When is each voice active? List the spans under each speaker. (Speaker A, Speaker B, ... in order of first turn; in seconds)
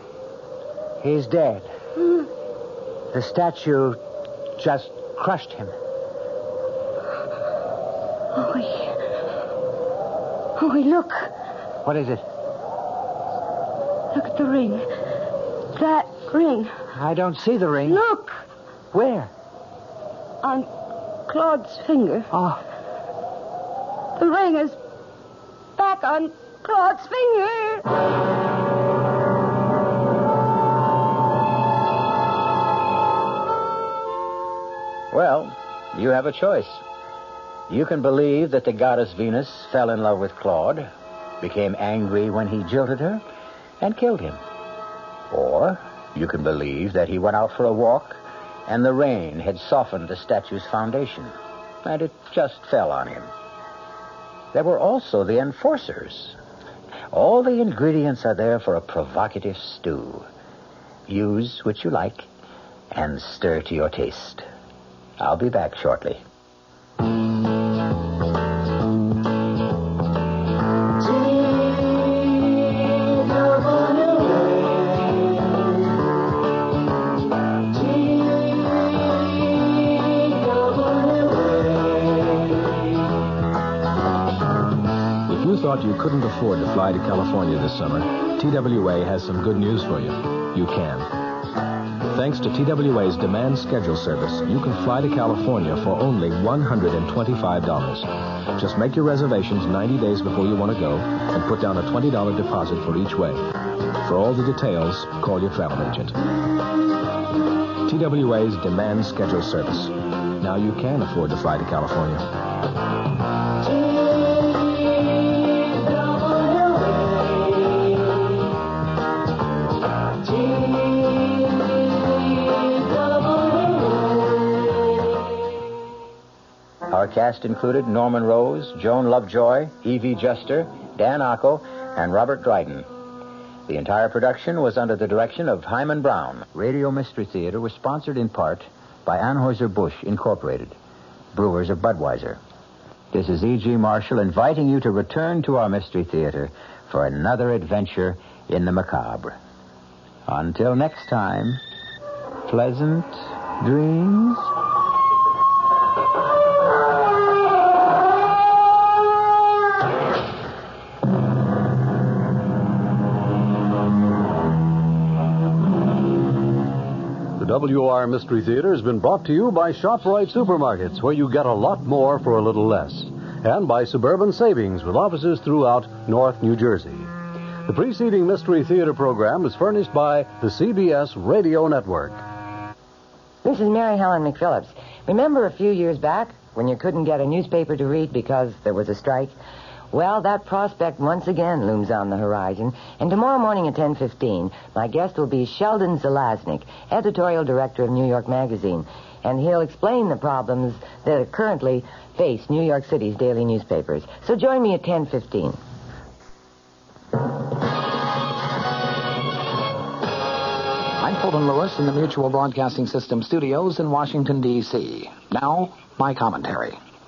Speaker A: 1.0-1.7, 3.1-4.0, 4.6-5.7, 11.8-12.2, 16.9-18.0, 18.9-19.3, 22.3-22.6
Speaker B: 8.3-9.0, 10.6-11.3, 14.1-14.8, 15.7-16.7, 17.9-18.4, 20.4-20.7, 21.3-22.3, 24.1-24.8, 25.8-27.8
Speaker C: 35.1-36.8, 37.7-43.2, 43.8-44.4, 45.3-53.3, 54.5-56.4, 57.1-60.3, 61.1-62.3, 62.9-64.4, 65.2-66.2, 126.9-132.9, 133.7-140.8, 141.3-142.4, 143.1-149.4, 150.2-151.6, 152.4-154.5
Speaker D: 85.2-91.1, 92.1-103.5, 104.0-106.2, 107.8-112.2
Speaker E: 167.4-177.1, 177.6-182.2
Speaker F: 183.4-189.3, 189.9-205.6
Speaker G: 211.0-216.8